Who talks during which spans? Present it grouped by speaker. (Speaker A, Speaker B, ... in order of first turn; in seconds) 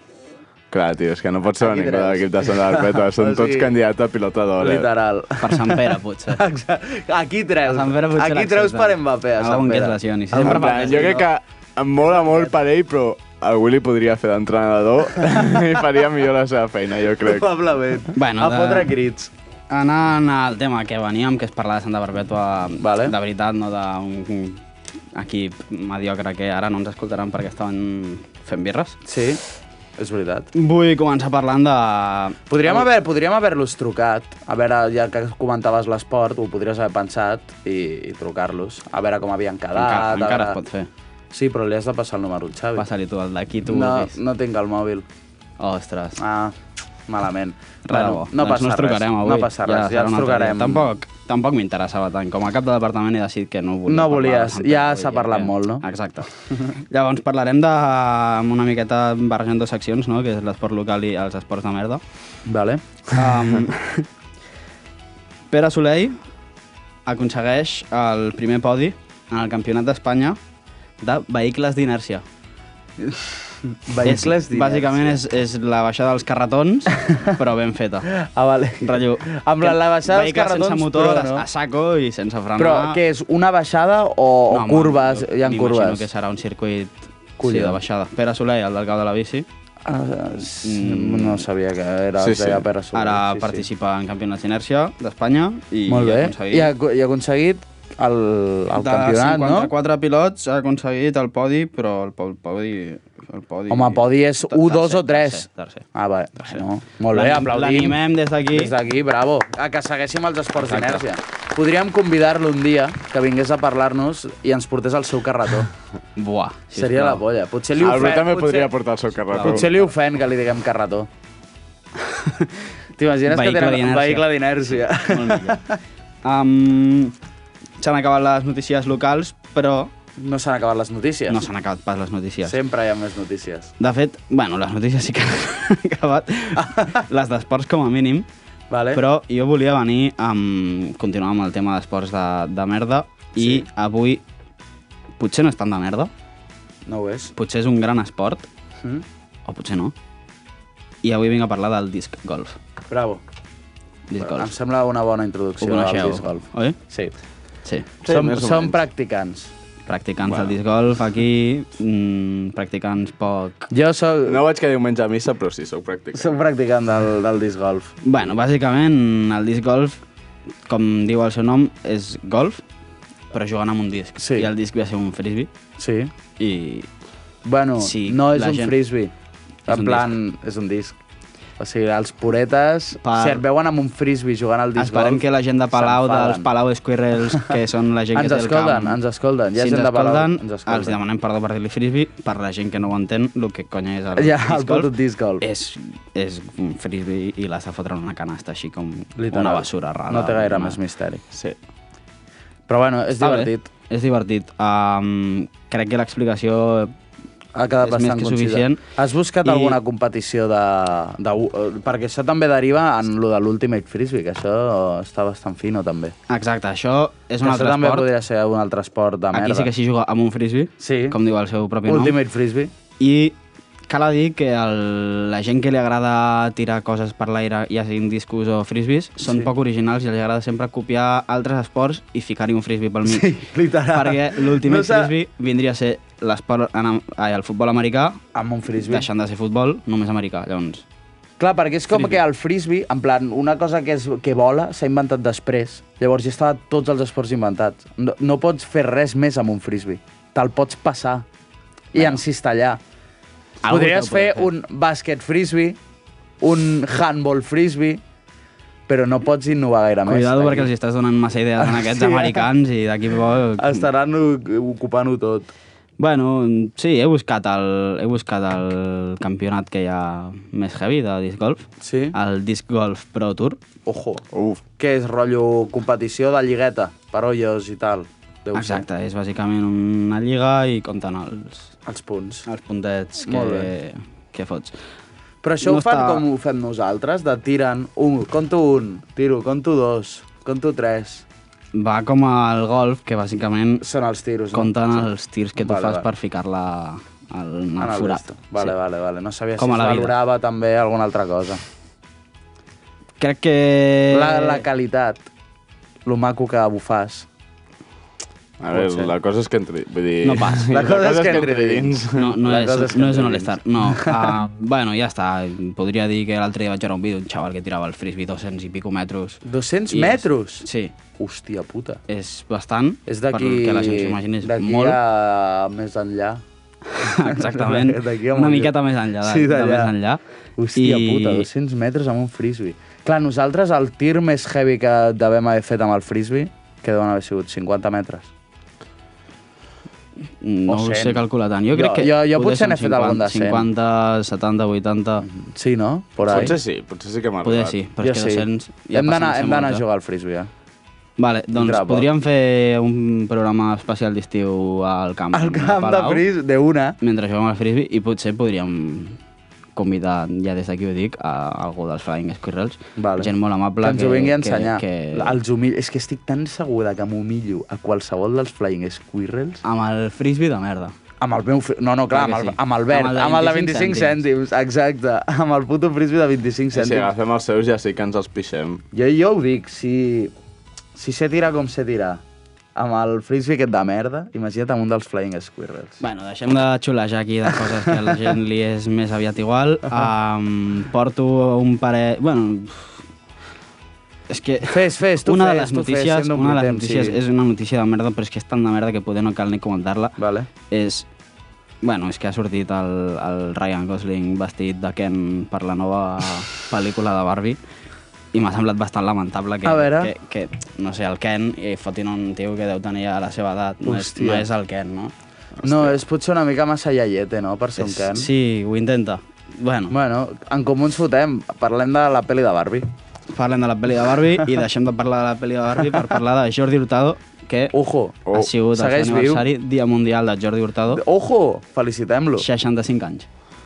Speaker A: 0.7-4.9, 10.4-17.5, 92.2-92.7, 117.8-119.7, 158.0-158.8, 160.2-160.6, 164.3-166.3, 274.3-274.6, 308.6-312.4, 346.3-347.8, 376.7-378.8, 415.6-416.0, 428.3-428.5
Speaker B: 1.6-3.7, 4.6-11.2, 12.0-12.5, 17.2-19.3, 22.8-23.1, 29.1-29.4, 30.0-30.5, 32.5-40.6, 41.3-42.9, 43.7-45.0, 46.2-46.6, 47.1-50.9, 53.9-55.9, 62.5-62.8, 73.9-75.2, 78.2-81.5, 82.6-86.1, 87.4-87.8, 89.9-93.6, 95.9-99.7, 103.7-115.7, 116.7-118.7, 119.4-121.1, 123.0-125.8, 130.2-131.5, 132.4-133.7, 136.6-137.0, 138.7-139.0, 143.4-143.6, 146.9-147.3, 152.9-153.2, 154.2-157.1, 158.1-159.5, 163.7-164.4, 166.2-167.9, 174.2-174.5, 175.8-176.1, 177.4-179.1, 179.7-180.9, 181.6-185.2, 185.7-186.5, 188.2-191.0, 194.2-195.4, 199.2-201.2, 202.7-203.7, 207.6-216.2, 217.4-219.7, 220.8-221.2, 221.9-222.7, 229.2-229.5, 233.1-235.1, 238.3-239.1, 241.4-251.2, 251.9-252.8, 253.7-255.8, 256.4-258.0, 258.9-260.7, 261.6-262.4, 263.6-265.5, 271.8-272.2, 273.9-274.2, 274.8-278.9, 281.9-282.5, 283.3-283.7, 285.4-291.2, 293.8-295.1, 295.6-296.1, 297.8-301.6, 304.1-305.2, 306.1-307.3, 308.7-309.1, 310.7-314.4, 319.4-322.0, 323.1-326.4, 327.1-329.9, 330.6-338.3, 340.7-343.7, 345.2-346.6, 348.0-350.5, 351.6-352.1, 355.3-357.0, 363.0-369.6, 371.2-377.1, 378.9-380.3, 381.0-382.2, 382.8-386.0, 387.6-388.2, 394.7-397.2, 400.2-400.5, 409.6-410.1, 413.8-414.5, 415.6-418.3, 419.9-422.9, 427.7-429.4, 430.9-432.4
Speaker C: 5.4-6.4, 7.7-11.3, 18.1-18.9, 19.7-24.6, 25.1-29.0, 30.6-32.9, 39.8-40.9, 42.8-44.1, 45.6-46.2, 47.9-56.3, 56.9-62.0, 63.1-64.1, 65.5-66.2, 67.1-70.4, 71.0-72.2, 74.0-78.1, 78.8-83.0, 84.5-89.5, 90.6-91.5, 92.9-96.7, 98.8-105.9, 106.4-108.7, 110.5-111.0, 116.2-117.2, 119.3-119.9, 122.0-122.5, 123.3-125.6, 126.2-127.1, 127.8-129.9, 131.3-132.6, 133.8-138.3, 138.9-144.2, 145.2-146.1, 147.3-148.5, 149.5-149.9, 151.0-152.6, 154.1-154.5, 155.6-156.8, 159.9-163.7, 168.0-170.0, 170.7-172.6, 173.3-175.5, 176.4-176.9, 177.8-178.8, 179.7-180.1, 183.0-183.4, 184.8-189.0, 189.6-194.9, 195.4-200.8, 203.2-206.9, 207.8-208.8, 209.4-209.8, 216.3-218.1, 219.3-222.2, 223.0-223.3, 223.9-233.3, 233.9-238.2, 238.8-240.8, 241.9-242.2, 253.6-254.5, 260.1-263.8, 266.0-273.6, 278.6-281.7, 282.5-284.8, 285.6-286.2, 291.7-293.8, 294.5-298.7, 299.6-300.2, 303.2-304.6, 310.2-310.7, 312.1-320.9, 322.1-325.0, 326.9-330.2, 330.8-331.5, 340.4-345.2, 347.4-349.8, 351.2-356.2, 357.0-359.2, 359.8-365.4, 369.6-370.9, 372.1-374.2, 386.0-393.0, 394.3-400.2, 400.7-401.1, 401.8-407.6, 408.3-415.1, 417.8-419.9, 423.3-427.7, 428.3-431.0, 432.4-433.3